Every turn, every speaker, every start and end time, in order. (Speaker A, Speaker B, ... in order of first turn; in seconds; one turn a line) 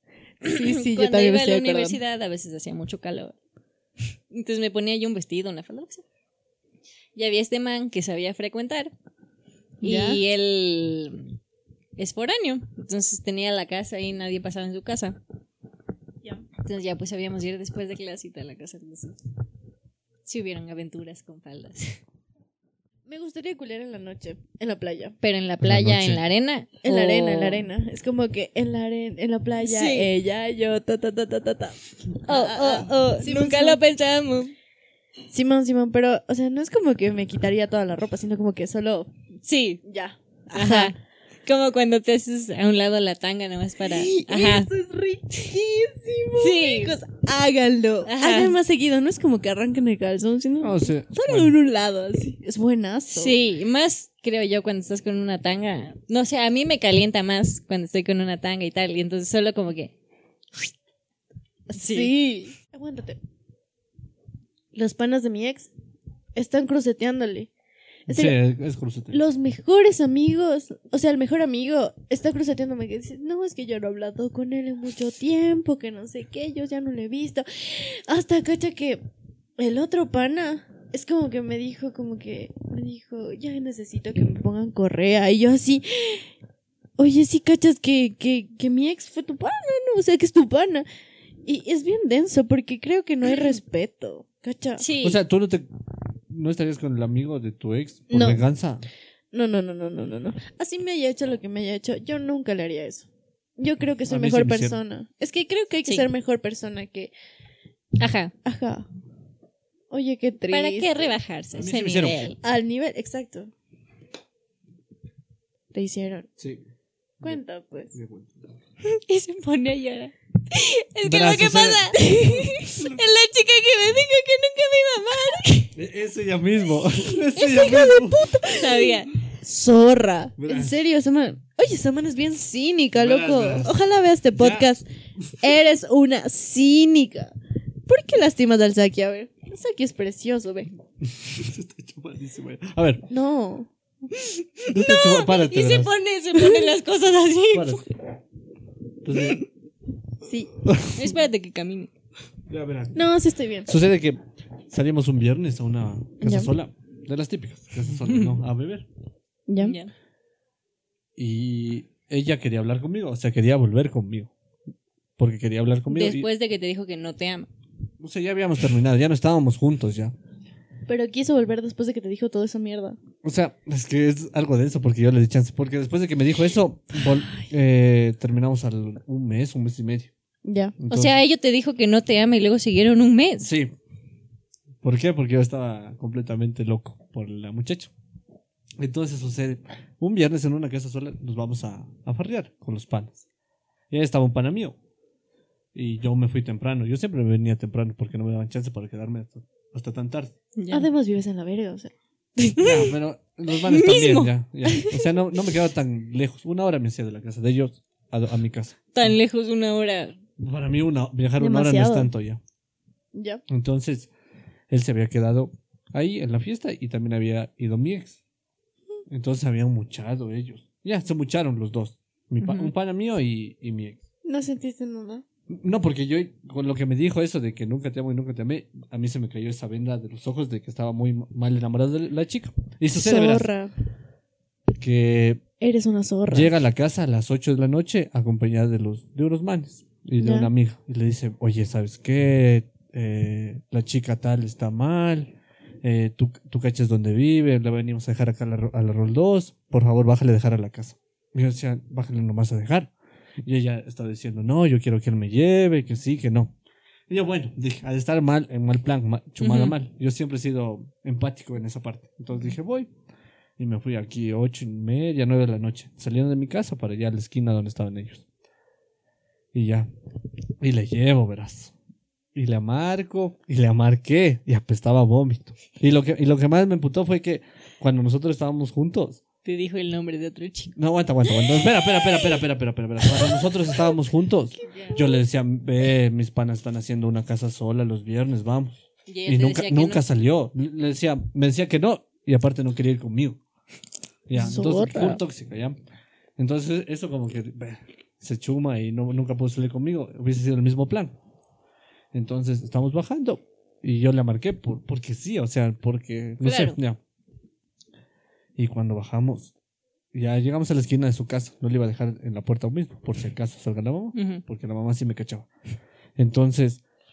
Speaker A: 0.4-2.0
Speaker B: 0.4-3.3
Speaker B: 4.3-6.0
Speaker B: 7.1-8.9
Speaker A: 9.8-10.2
Speaker B: 9.8-11.4
Speaker B: 12.0-15.2
Speaker B: 16.6-19.2
Speaker B: 20.2-22.0
Speaker A: 23.1-25.1
Speaker B: 25.2-27.7
Speaker C: 25.6-26.2
Speaker A: 26.8-33.8
Speaker B: 29.6-30.1
Speaker B: 32.2-34.5
Speaker A: 35.3-39.1
Speaker B: 39.4-39.8
Speaker A: 39.8-40.9
Speaker B: 40.5-44.7
Speaker A: 43.8-53.4
Speaker B: 46.4-46.9
Speaker B: 48.0-48.5
Speaker C: 50.6-51.5
Speaker B: 53.1-59.9
Speaker A: 61.7-63.2
Speaker B: 61.7-62.1
Speaker A: 64.7-65.7
Speaker A: 66.3-67.5
Speaker A: 68.1-68.4
Speaker C: 68.1-69.2
Speaker A: 69.1-79.0
Speaker A: 79.6-86.3
Speaker A: 87.0-90.8
Speaker A: 91.5-94.9
Speaker B: 94.8-95.2
Speaker C: 95.0-95.7
Speaker C: 96.3-98.9
Speaker A: 98.1-98.4
Speaker A: 99.3-103.1
Speaker A: 103.6-107.1
Speaker C: 104.1-104.8
Speaker B: 108.0-108.3
Speaker A: 108.4-108.9
Speaker A: 109.9-111.0
Speaker B: 110.5-112.4
Speaker C: 111.5-112.2
Speaker A: 112.4-113.5
Speaker A: 115.7-116.3
Speaker C: 116.4-116.7
Speaker A: 117.2-117.9
Speaker C: 117.9-118.6
Speaker B: 118.8-122.0
Speaker C: 121.0-123.0
Speaker A: 121.9-122.8
Speaker B: 122.6-125.7
Speaker A: 125.1-125.5
Speaker C: 125.7-128.3
Speaker A: 127.2-134.8
Speaker B: 128.5-129.1
Speaker C: 130.4-130.7
Speaker C: 132.9-133.8
Speaker C: 134.3-134.7
Speaker A: 135.4-137.3
Speaker A: 137.9-140.7
Speaker C: 141.0-143.0
Speaker A: 143.1-143.7
Speaker B: 144.1-147.8
Speaker C: 144.7-145.9
Speaker C: 147.5-147.8
Speaker C: 149.0-149.4
Speaker A: 150.2-150.5
Speaker C: 150.6-151.1
Speaker B: 150.9-151.9
Speaker C: 152.5-153.0
Speaker A: 152.9-153.7
Speaker C: 153.7-158.9
Speaker A: 156.2-156.5
Speaker A: 159.5-159.8
Speaker B: 159.6-159.9
Speaker C: 161.2-164.3
Speaker C: 165.2-166.3
Speaker B: 165.9-167.5
Speaker C: 168.0-170.1
Speaker A: 170.9-173.0
Speaker C: 173.2-180.1
Speaker A: 180.4-180.7
Speaker C: 180.8-181.1
Speaker B: 180.9-183.5
Speaker C: 183.4-183.7
Speaker C: 184.8-187.9
Speaker C: 188.8-193.2
Speaker C: 193.9-194.8
Speaker C: 195.7-200.3
Speaker B: 200.6-200.9
Speaker A: 200.7-201.9
Speaker B: 202.5-202.9
Speaker C: 202.6-209.2
Speaker B: 203.6-204.3
Speaker A: 204.7-205.0
Speaker B: 208.9-210.2
Speaker C: 210.4-212.4
Speaker A: 211.4-212.1
Speaker A: 213.1-213.4
Speaker C: 213.5-214.1
Speaker C: 214.7-218.2
Speaker C: 219.1-224.0
Speaker B: 222.4-222.7
Speaker A: 224.2-225.2
Speaker C: 225.5-233.5
Speaker A: 232.9-233.7
Speaker C: 234.7-235.4
Speaker A: 235.6-236.5
Speaker C: 236.3-252.9
Speaker A: 240.2-240.5
Speaker C: 253.4-256.5
Speaker C: 257.1-262.9
Speaker B: 259.4-259.7
Speaker C: 263.6-268.2
Speaker C: 269.5-269.9
Speaker C: 270.6-271.7
Speaker C: 272.3-279.2
Speaker B: 279.4-280.8
Speaker C: 280.8-293.4
Speaker B: 289.1-290.0
Speaker C: 294.3-295.8
Speaker A: 294.4-295.2
Speaker C: 296.4-301.1
Speaker C: 302.1-307.0
Speaker B: 306.4-306.8
Speaker C: 308.6-309.5
Speaker C: 310.1-315.5
Speaker B: 314.1-314.4
Speaker C: 316.2-316.8